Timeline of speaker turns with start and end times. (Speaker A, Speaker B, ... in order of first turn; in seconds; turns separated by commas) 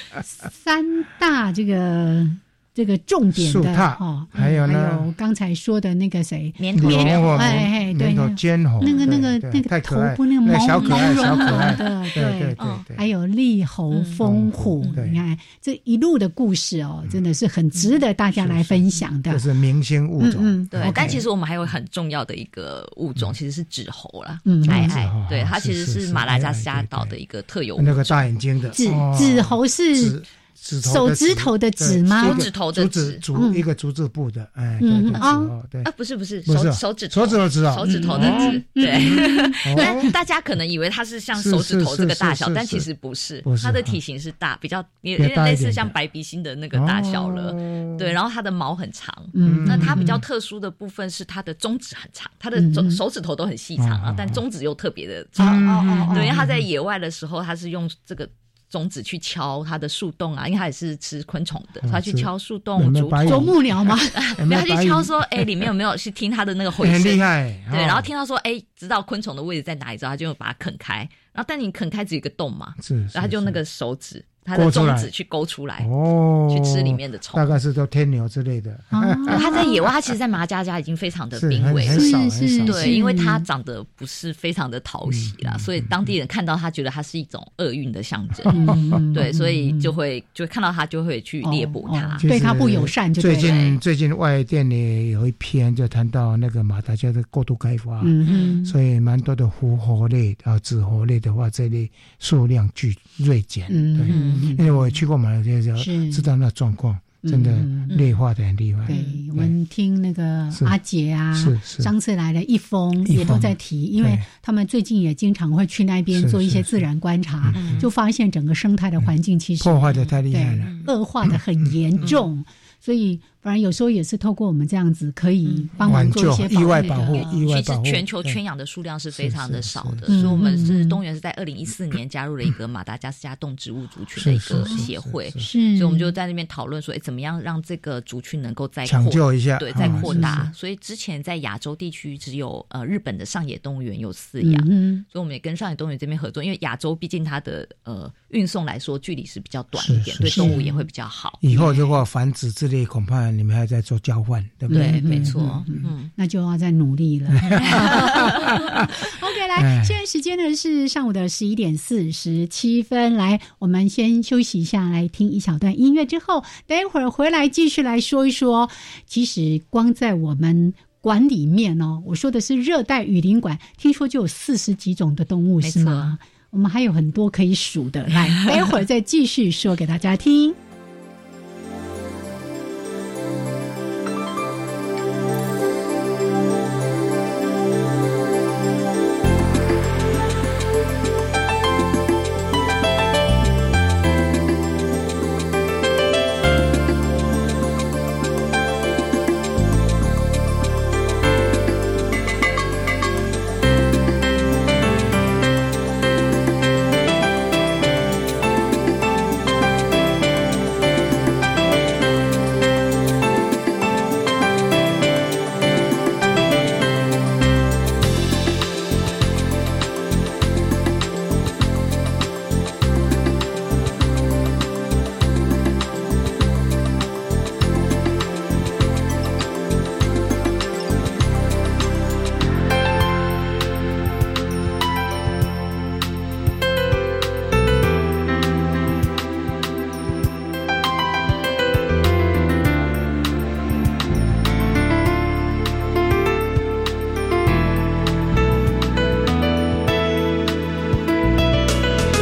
Speaker A: 0.2-19.4, Speaker B: 3.3-5.1, Speaker C: 6.6-7.6, Speaker B: 6.7-13.0, Speaker C: 8.8-9.2, Speaker C: 10.8-11.9, Speaker C: 12.6-12.8, Speaker C: 13.9-14.2, Speaker B: 14.2-15.2, Speaker B: 18.3-21.2, Speaker A: 20.2-21.2, Speaker C: 20.7-28.3, Speaker A: 24.4-25.0, Speaker B: 24.6-27.1, Speaker B: 27.8-35.9, Speaker A: 28.8-30.2, Speaker A: 30.8-32.4, Speaker C: 32.2-33.2, Speaker A: 33.3-33.6, Speaker A: 34.8-35.5, Speaker C: 35.8-63.5, Speaker B: 36.4-40.1, Speaker A: 37.9-40.1, Speaker B: 41.3-42.9, Speaker B: 43.4-44.0, Speaker B: 45.2-45.9, Speaker B: 46.7-48.1, Speaker A: 49.3-50.2, Speaker B: 49.4-50.2, Speaker A: 52.5-53.0, Speaker B: 53.8-54.4, Speaker A: 55.4-56.3, Speaker B: 55.4-56.6, Speaker B: 61.8-65.7, Speaker A: 63.2-64.3, Speaker C: 64.1-75.9, Speaker B: 66.8-68.1, Speaker B: 72.8-73.6, Speaker B: 74.5-75.1, Speaker B: 75.8-79.8, Speaker C: 76.5-77.5, Speaker A: 78.9-79.7, Speaker C: 79.3-92.2, Speaker B: 81.3-83.0, Speaker A: 81.9-83.4, Speaker B: 85.0-85.9, Speaker B: 88.5-89.0, Speaker A: 88.5-89.9, Speaker A: 91.4-93.5, Speaker B: 92.2-109.5, Speaker C: 93.4-93.8, Speaker A: 98.0-98.7, Speaker C: 98.2-98.5, Speaker A: 103.7-105.0, Speaker C: 104.1-104.5, Speaker A: 105.8-106.3, Speaker A: 107.2-107.9, Speaker C: 107.9-108.2, Speaker A: 108.9-127.3, Speaker C: 108.9-109.2, Speaker B: 111.3-111.9, Speaker B: 113.0-114.2, Speaker B: 116.1-116.9, Speaker B: 117.4-117.9, Speaker C: 117.5-117.9, Speaker B: 119.0-122.1, Speaker C: 120.6-120.9, Speaker C: 125.5-126.1, Speaker B: 125.8-128.4, Speaker C: 126.7-151.5, Speaker B: 129.1-130.7, Speaker A: 130.1-131.0, Speaker B: 134.2-135.4, Speaker A: 134.6-136.1, Speaker B: 138.8-140.4, Speaker A: 139.8-140.5, Speaker A: 144.4-145.0, Speaker B: 149.8-150.6, Speaker A: 150.2-150.8, Speaker B: 151.4-155.7, Speaker A: 151.5-151.8, Speaker A: 154.7-180.6, Speaker C: 154.7-156.1, Speaker B: 157.4-158.8, Speaker C: 157.6-158.3, Speaker B: 159.6-160.0, Speaker C: 175.6-176.2